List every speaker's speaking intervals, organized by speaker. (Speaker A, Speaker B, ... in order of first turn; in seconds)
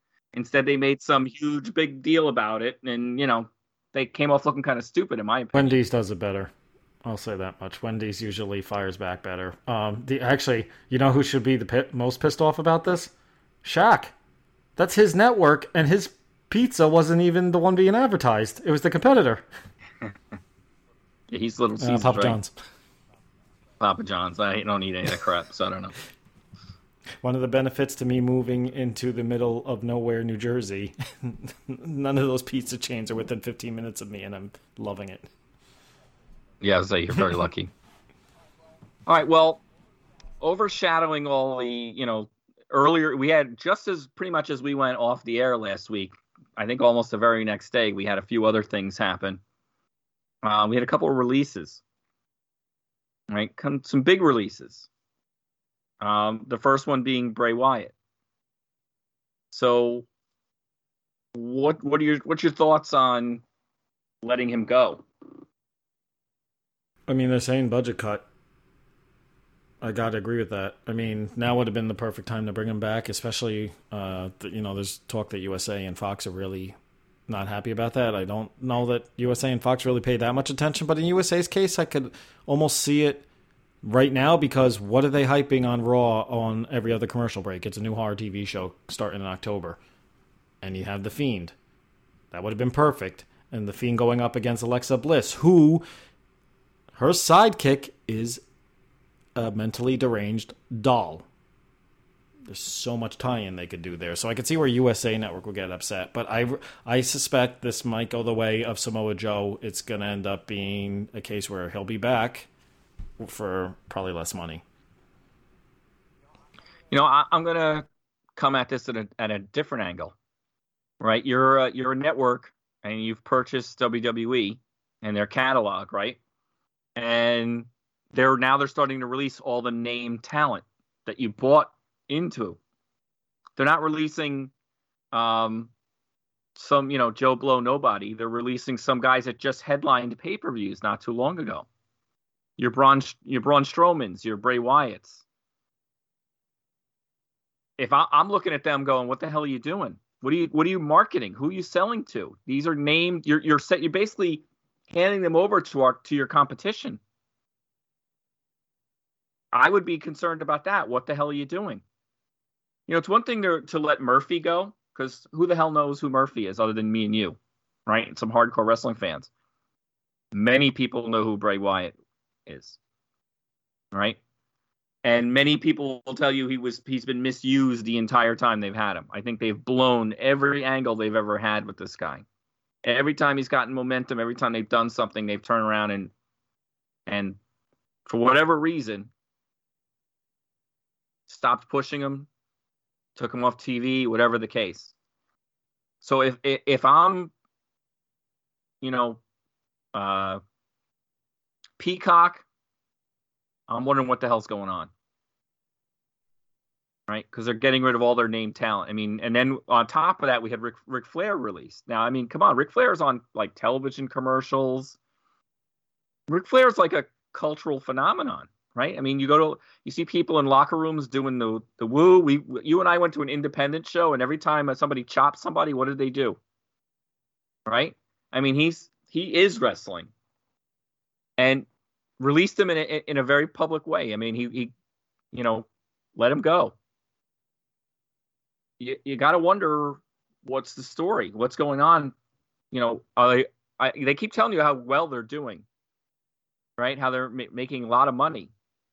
Speaker A: 0.3-5.8, 21.3-22.4, 23.8-25.9, 36.6-37.7, 39.0-39.6, 40.4-49.4, 50.4-51.8, 53.3-54.9, 56.0-57.9, 59.5-60.1, 61.4-63.4, 64.2-65.0, 116.9-120.1, 121.0-126.2, 127.0-132.6, 133.6-134.5, 135.1-135.7, 136.6-141.7, 142.6-145.2, 147.8-157.0, 159.5-161.8, 162.9-169.3, 170.3-171.9, 172.5-172.8, 173.9-174.2, 175.0-182.2, 182.8-186.1, 187.1-187.4, 188.1-189.1, 191.3-192.3, 193.2-194.9, 196.0-197.3, 198.8-199.2, 199.9-200.4, 201.8-202.4, 203.7-204.9, 207.1-214.9, 216.3-226.4, 227.7-230.1, 231.4-231.7, 232.2-234.7, 235.3-236.7, 238.8-242.1, 242.7-245.6, 246.8-248.5
Speaker B: 5.5-6.5, 7.0-13.1, 13.6-14.1, 14.8-19.4, 21.8-22.5, 27.2-35.3, 37.2-37.4, 67.1-68.3, 69.8-76.8, 77.3-83.3, 83.8-89.8, 90.6-91.5, 92.3-95.8, 96.9-98.4, 99.4-101.3, 102.5-112.5, 113.2-114.6